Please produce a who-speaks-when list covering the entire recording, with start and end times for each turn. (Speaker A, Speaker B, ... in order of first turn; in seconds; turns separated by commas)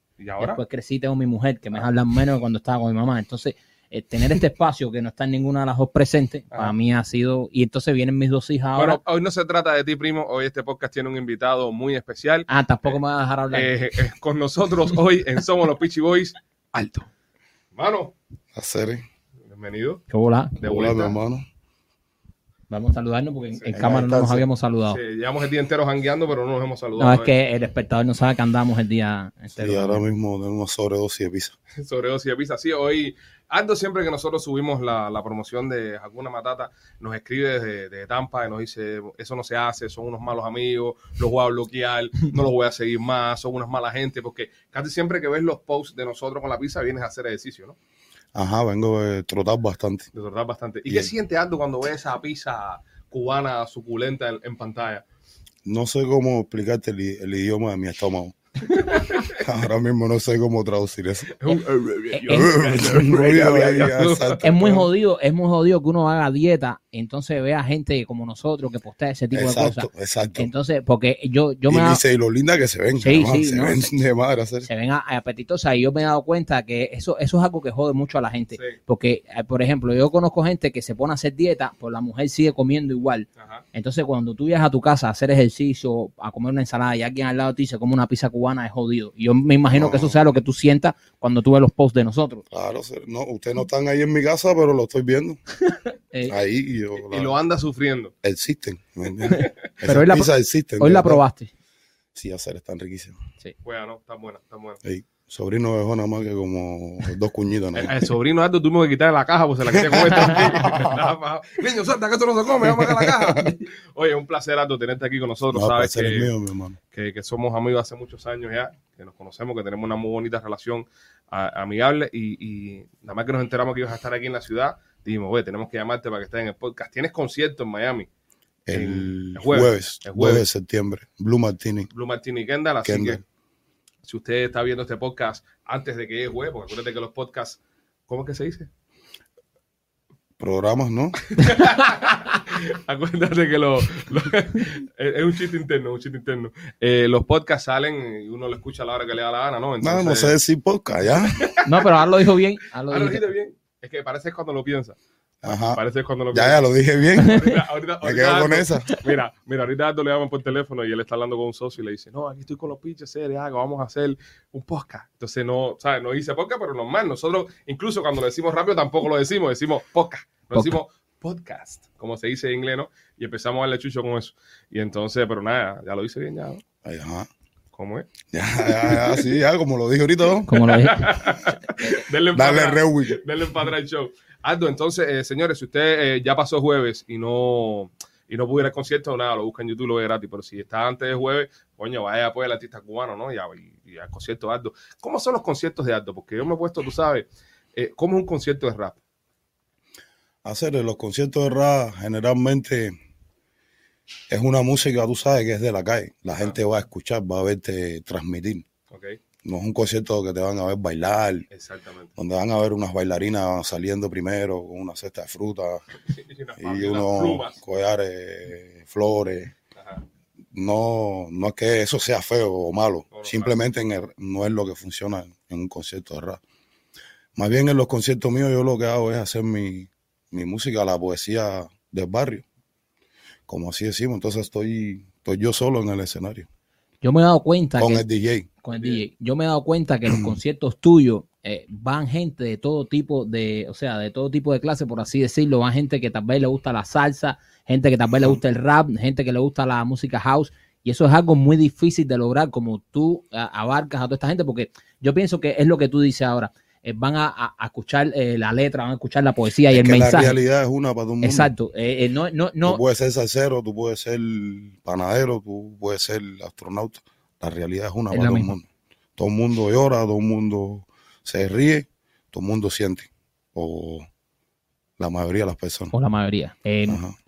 Speaker A: 0.2-0.6, Speaker B: 0.4-9.0, Speaker A: 8.8-13.0, Speaker B: 12.5-13.9, Speaker A: 13.5-17.1, Speaker A: 17.8-18.1, Speaker C: 18.5-19.0, Speaker A: 19.5-20.0, Speaker B: 20.1-20.6, Speaker A: 20.6-21.1, Speaker C: 20.6-21.4, Speaker B: 22.7-25.0, Speaker C: 23.7-24.5, Speaker A: 24.9-27.3, Speaker B: 27.0-30.0, Speaker C: 29.5-31.5, Speaker A: 31.8-47.8, Speaker C: 48.3-50.1, Speaker A: 50.1-55.0, Speaker C: 55.6-58.4, Speaker A: 58.7-59.4, Speaker C: 59.3-61.4, Speaker A: 61.4-64.8, Speaker B: 62.1-62.6, Speaker C: 62.3-64.9, Speaker B: 64.4-72.0, Speaker C: 69.3-70.5, Speaker C: 71.7-74.7, Speaker B: 73.0-73.9, Speaker B: 74.6-92.4, Speaker A: 83.4-83.6, Speaker C: 89.7-90.2, Speaker C: 92.5-95.4, Speaker B: 95.7-96.3, Speaker C: 96.3-97.4, Speaker A: 97.0-98.1, Speaker C: 98.2-101.2, Speaker A: 99.2-99.5, Speaker B: 99.3-101.5, Speaker C: 102.1-103.2, Speaker A: 103.6-104.8, Speaker C: 104.8-108.0, Speaker A: 107.8-116.3, Speaker C: 109.8-111.0, Speaker C: 112.8-113.5, Speaker C: 115.5-116.8, Speaker A: 116.9-128.1, Speaker C: 128.7-131.9, Speaker A: 128.7-130.4, Speaker A: 131.9-133.2, Speaker C: 132.8-133.2, Speaker A: 134.1-138.7, Speaker C: 140.4-141.2, Speaker A: 141.3-150.3, Speaker C: 149.8-151.5, Speaker A: 151.3-151.9, Speaker B: 151.7-153.2, Speaker A: 152.9-176.6, Speaker C: 155.4-155.8, Speaker C: 156.3-158.9, Speaker C: 176.8-177.3, Speaker A: 177.7-178.1, Speaker C: 178.3-180.5, Speaker A: 178.8-179.2, Speaker B: 180.5-181.2, Speaker A: 180.5-199.0, Speaker C: 182.3-183.2, Speaker C: 200.4-202.9, Speaker C: 204.3-208.7, Speaker A: 208.9-209.2, Speaker C: 209.4-211.5, Speaker A: 211.5-212.1, Speaker C: 212.2-215.8, Speaker A: 216.0-217.6, Speaker C: 216.6-219.5, Speaker A: 219.8-220.0, Speaker C: 220.5-226.4, Speaker A: 223.1-223.5, Speaker C: 227.3-232.4, Speaker C: 233.5-236.5, Speaker B: 237.0-238.0, Speaker C: 237.8-238.5, Speaker B: 238.6-260.4, Speaker A: 238.7-239.0, Speaker C: 240.1-240.4, Speaker C: 248.1-248.4, Speaker C: 259.7-261.5, Speaker B: 261.2-262.8, Speaker C: 262.6-274.1, Speaker B: 268.1-268.5, Speaker C: 275.0-275.9, Speaker B: 275.9-277.0, Speaker C: 276.9-277.1